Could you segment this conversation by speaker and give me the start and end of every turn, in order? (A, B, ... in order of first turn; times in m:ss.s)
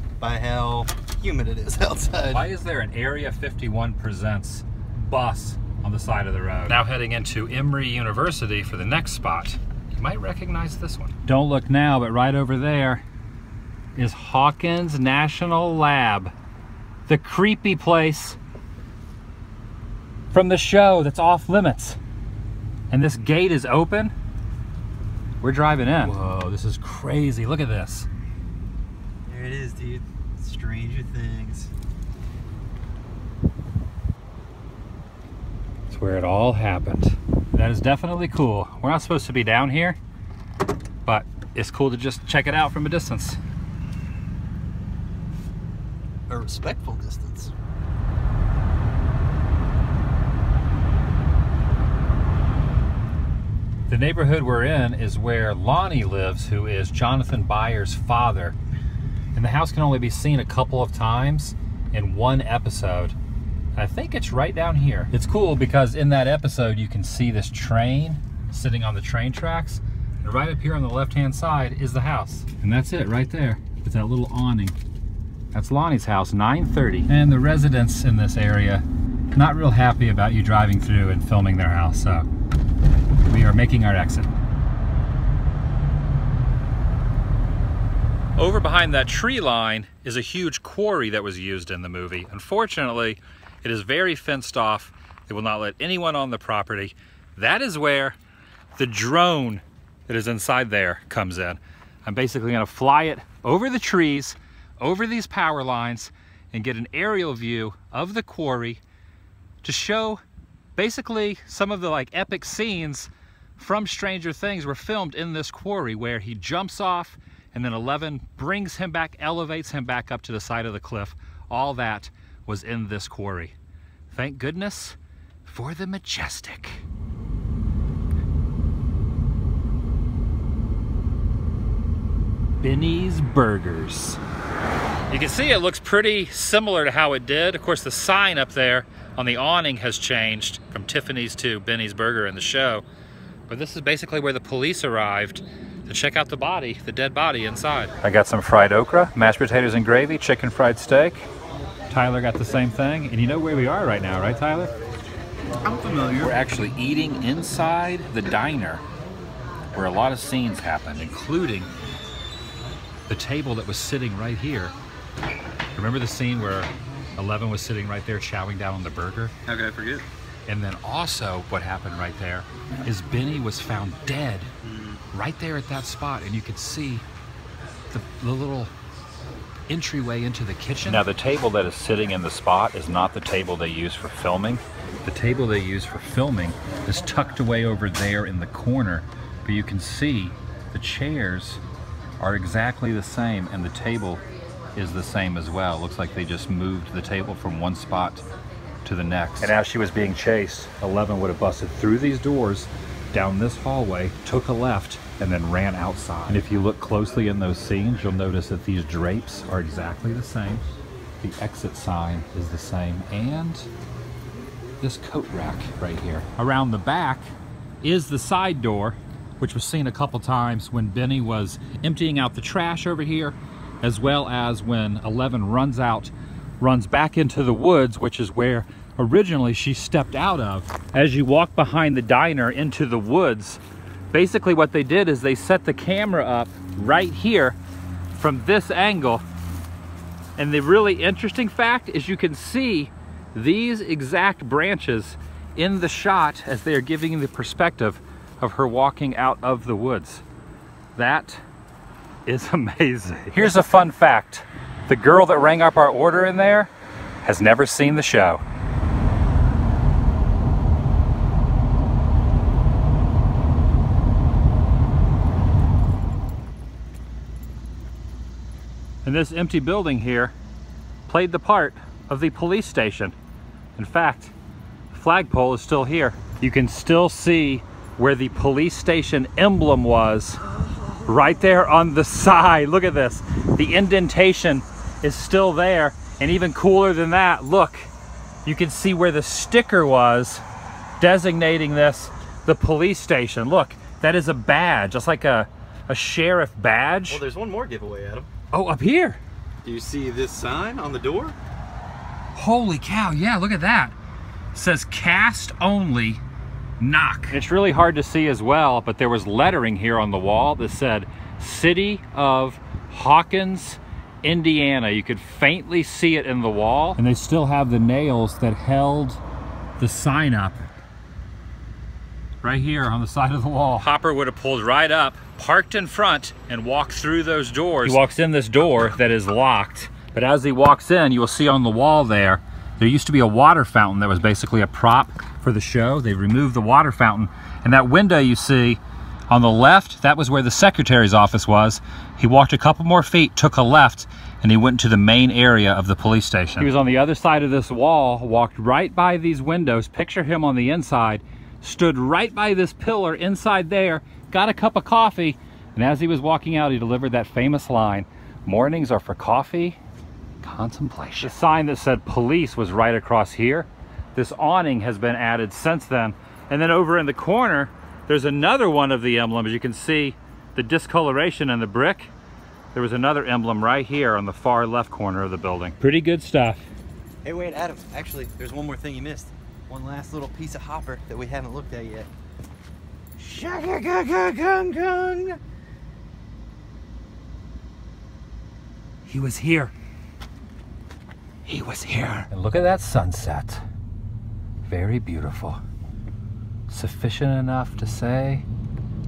0:00.2-0:02.5 A
0:02.3-0:13.0 B
0:14.0-0:16.3 B
0:17.1-0:18.4 B
0:20.3-0:22.0 B
0:22.9-0:24.1 B
0:25.4-0:28.1 B
0:29.3-0:31.7 A
0:35.9-0:40.0 B
0:41.0-0:43.4 B
0:46.3-0:47.5 A
0:53.9-0:58.6 B
0:59.3-1:03.1 B
1:03.8-1:14.8 B
1:15.5-1:22.2 B
1:23.2-1:24.3 B
1:28.4-1:38.2 B
1:38.8-1:48.8 B
1:49.6-1:50.2 B
1:50.8-2:03.5 B
2:04.1-2:06.8 B
2:12.6-2:14.2 B
2:15.1-2:22.8 B
2:23.5-2:31.2 B
2:31.9-2:34.7 B
2:35.6-2:36.3 A
2:36.1-2:38.8 B
2:39.7-2:41.7 B
2:43.1-2:44.7 B
2:45.8-2:49.3 B
2:49.5-2:50.1 A
2:50.5-2:54.5 B
2:54.6-2:55.0 A
2:55.1-2:57.0 B
2:57.9-2:58.7 B
2:59.7-3:11.6 B
3:12.2-3:14.2 B
3:14.7-3:18.2 B
3:18.8-3:30.6 B
3:31.2-3:33.7 B
3:34.8-3:57.6 B
3:58.1-3:59.2 B
4:00.4-4:10.2 B
4:11.0-4:11.4 B
4:12.2-4:16.7 B
4:17.2-4:18.4 B
4:29.0-4:30.3 B
4:31.1-4:33.1 B
4:33.8-4:34.3 B
4:34.9-4:40.5 B
4:41.0-4:47.9 B
4:48.4-4:50.4 B
4:51.0-4:57.2 B
4:57.1-4:58.3 A
4:58.5-4:59.2 B
4:59.6-5:01.4 A
5:02.3-5:03.9 B
5:04.5-5:06.2 B
5:06.8-5:19.2 B
5:19.8-5:20.6 B
5:22.4-5:59.8 B
6:00.4-6:12.1 B
6:12.7-6:16.6 B
6:17.2-6:22.1 A
6:23.2-6:25.4 A
6:29.0-6:29.7 B
6:31.4-6:33.6 B
6:34.6-6:35.6 B
6:36.7-6:38.4 B